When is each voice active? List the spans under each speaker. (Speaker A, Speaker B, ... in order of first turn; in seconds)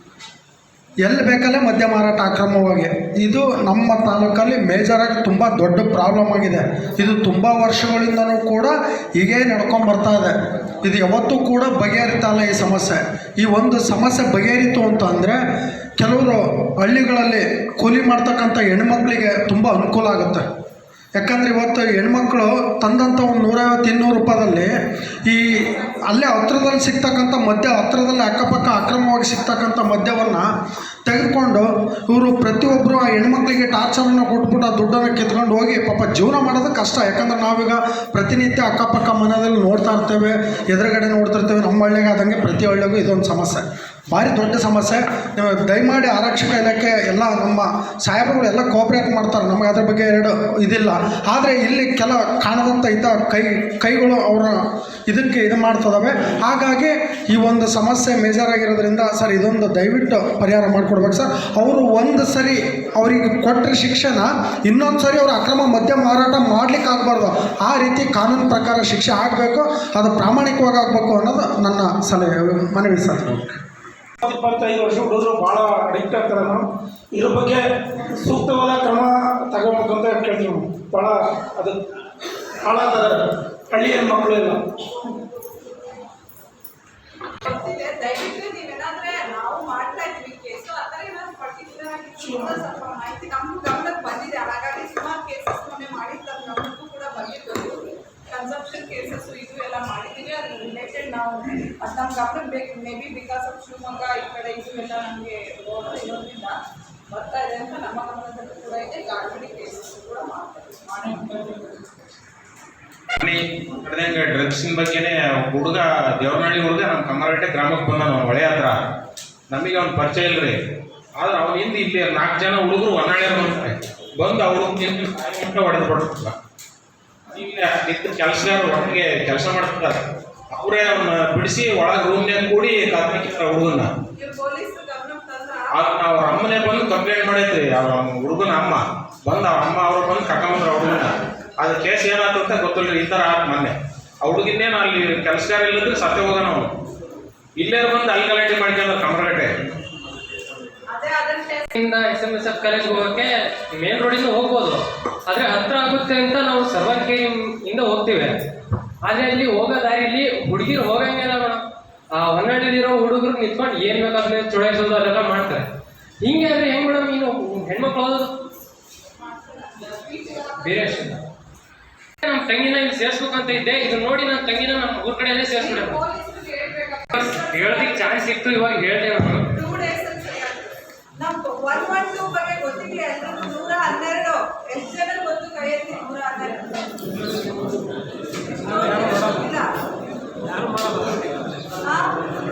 Speaker A: 1.1-10.3, 10.8-15.4, 16.0-20.4, 21.1-24.7, 25.3-25.5, 26.1-30.4, 31.1-54.6, 55.1-73.6
Speaker B: 74.2-76.6, 77.2-77.6, 78.3-81.7, 82.7-83.2, 83.7-84.6
Speaker C: 87.4-106.6, 107.1-111.7, 134.2-136.0, 150.9-151.7, 169.2-171.0, 175.6-178.2, 179.5-186.9, 188.4-189.7, 191.8-192.1
Speaker D: 113.2-118.8, 119.5-120.6, 121.2-126.3, 127.3-130.0, 130.5-133.9, 135.7-141.1, 141.6-146.6, 147.6-149.5
Speaker E: 151.7-158.3, 159.1-161.6, 162.2-165.7, 166.2-168.3, 170.6-171.2, 172.2-176.0, 177.1-179.5